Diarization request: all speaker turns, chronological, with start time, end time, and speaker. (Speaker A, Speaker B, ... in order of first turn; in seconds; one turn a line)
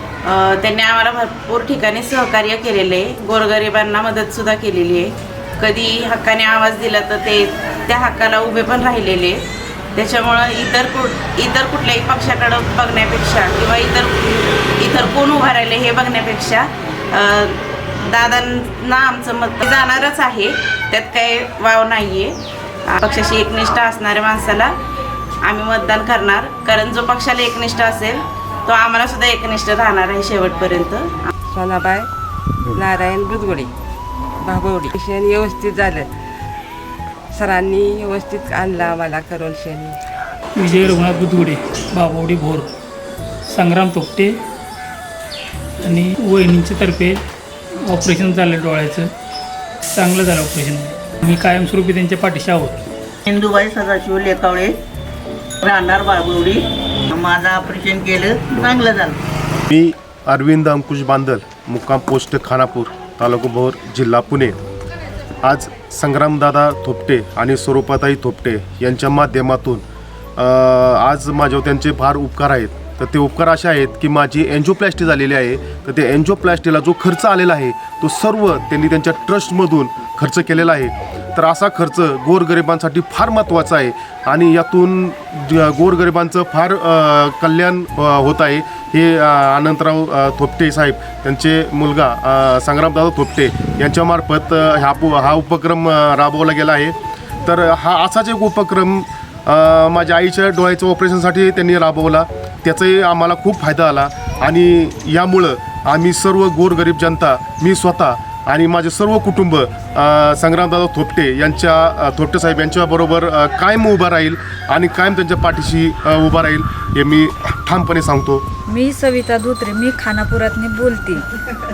Speaker A: 0.2-9.4
Speaker A: 10.0-22.4
Speaker A: 22.9-24.7
Speaker A: 25.4-31.1
Speaker B: 31.5-32.1
Speaker B: 32.7-33.7
Speaker B: 34.4-36.1
Speaker B: 37.3-40.0
Speaker C: 40.6-42.7
Speaker C: 43.5-44.4
Speaker C: 45.8-47.2
Speaker C: 47.9-49.1
Speaker C: 49.9-52.9
Speaker D: 53.3-54.7
Speaker D: 55.7-56.6
Speaker D: 57.2-59.1
Speaker E: 59.7-64.6
Speaker E: 65.4-69.8
Speaker E: 70.4-118.4
Speaker F: 118.7-121.2